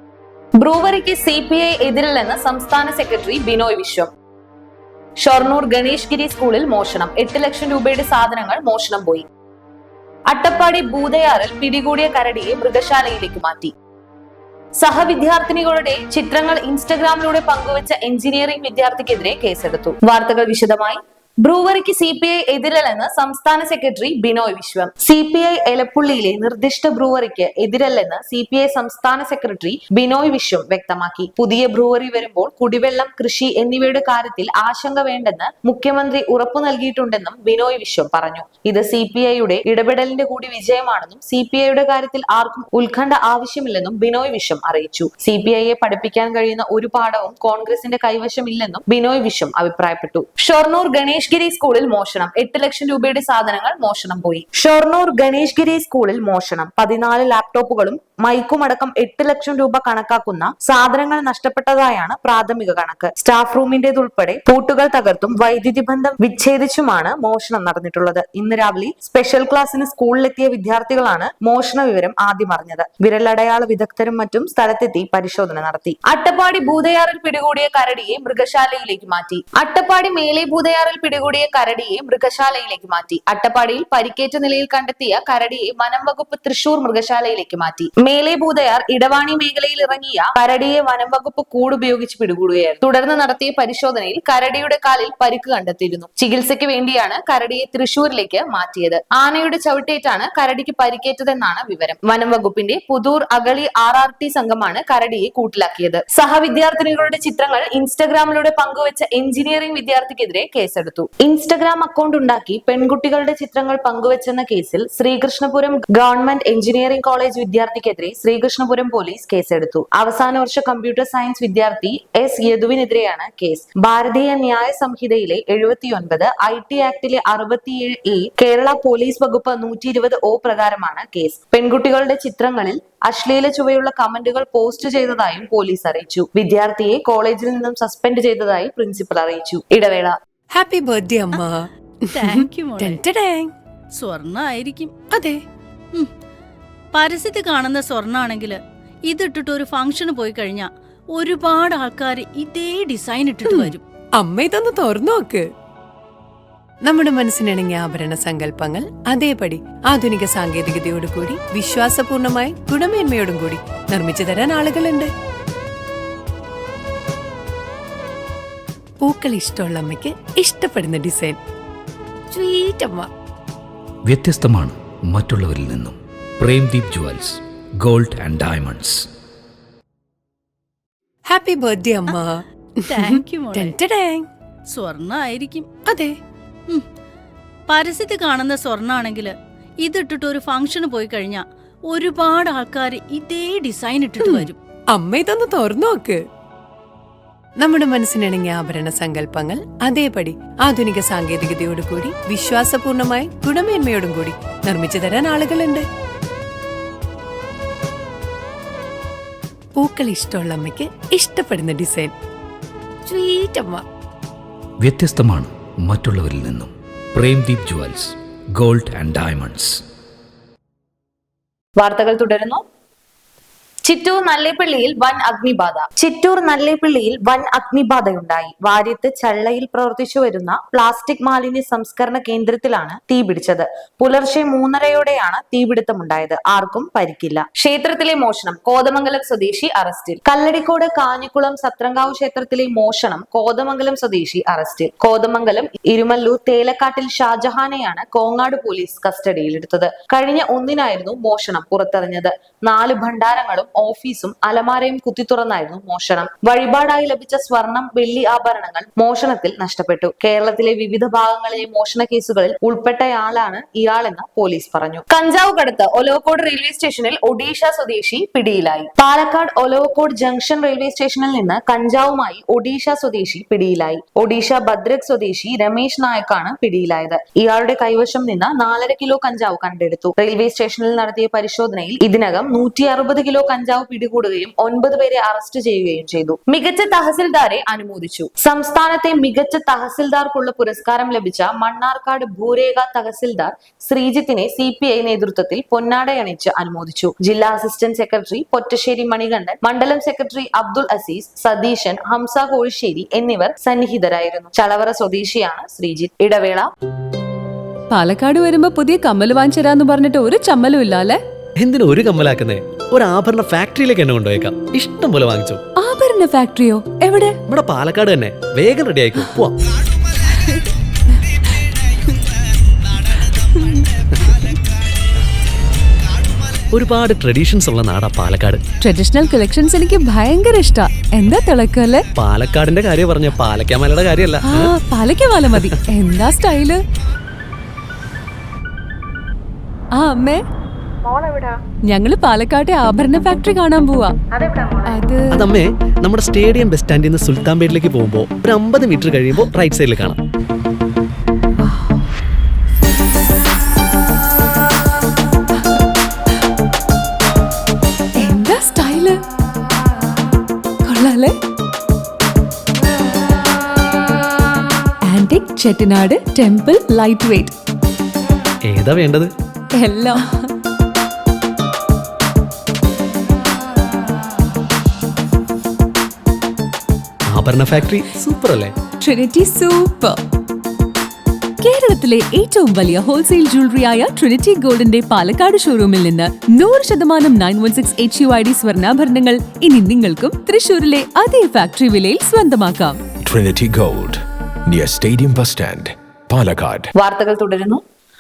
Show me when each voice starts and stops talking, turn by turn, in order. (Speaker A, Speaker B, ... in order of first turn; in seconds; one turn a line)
Speaker A: 0.6-4.1
Speaker A: 5.2-9.3
Speaker A: 10.3-13.7
Speaker A: 14.8-140.2
Speaker B: 140.5-143.5
Speaker C: 142.1-143.0
Speaker C: 143.9-144.9
Speaker B: 145.1-145.4
Speaker C: 146.9-153.8
Speaker B: 153.5-155.4
Speaker B: 156.8-165.1
Speaker B: 169.0-171.4
Speaker B: 172.3-173.1
Speaker D: 174.1-179.0
Speaker B: 181.3-182.4
Speaker C: 182.9-183.8
Speaker B: 182.9-184.2
Speaker C: 184.7-185.7
Speaker B: 185.9-186.1
Speaker C: 187.7-194.6
Speaker B: 194.2-196.2
Speaker B: 197.6-205.8
Speaker B: 209.8-212.1
Speaker B: 213.1-213.8
Speaker D: 214.8-219.8
Speaker A: 221.8-222.6
Speaker A: 223.8-306.7
Speaker E: 307.9-311.2
Speaker F: 311.6-315.6
Speaker E: 315.8-317.4
Speaker F: 317.5-319.6
Speaker E: 320.4-320.6
Speaker F: 326.7-328.6
Speaker E: 328.8-332.1
Speaker F: 332.2-334.7
Speaker E: 334.4-336.8
Speaker F: 335.5-335.8
Speaker E: 340.0-340.4
Speaker E: 341.9-344.2
Speaker E: 344.9-345.4
Speaker F: 345.3-350.2
Speaker E: 358.2-359.2
Speaker E: 360.9-361.4
Speaker E: 365.1-367.6
Speaker F: 368.6-369.3
Speaker E: 369.8-370.5
Speaker F: 377.3-378.8
Speaker E: 379.0-380.2
Speaker E: 381.6-393.0
Speaker G: 393.3-394.1
Speaker G: 394.7-396.9
Speaker A: 397.0-397.8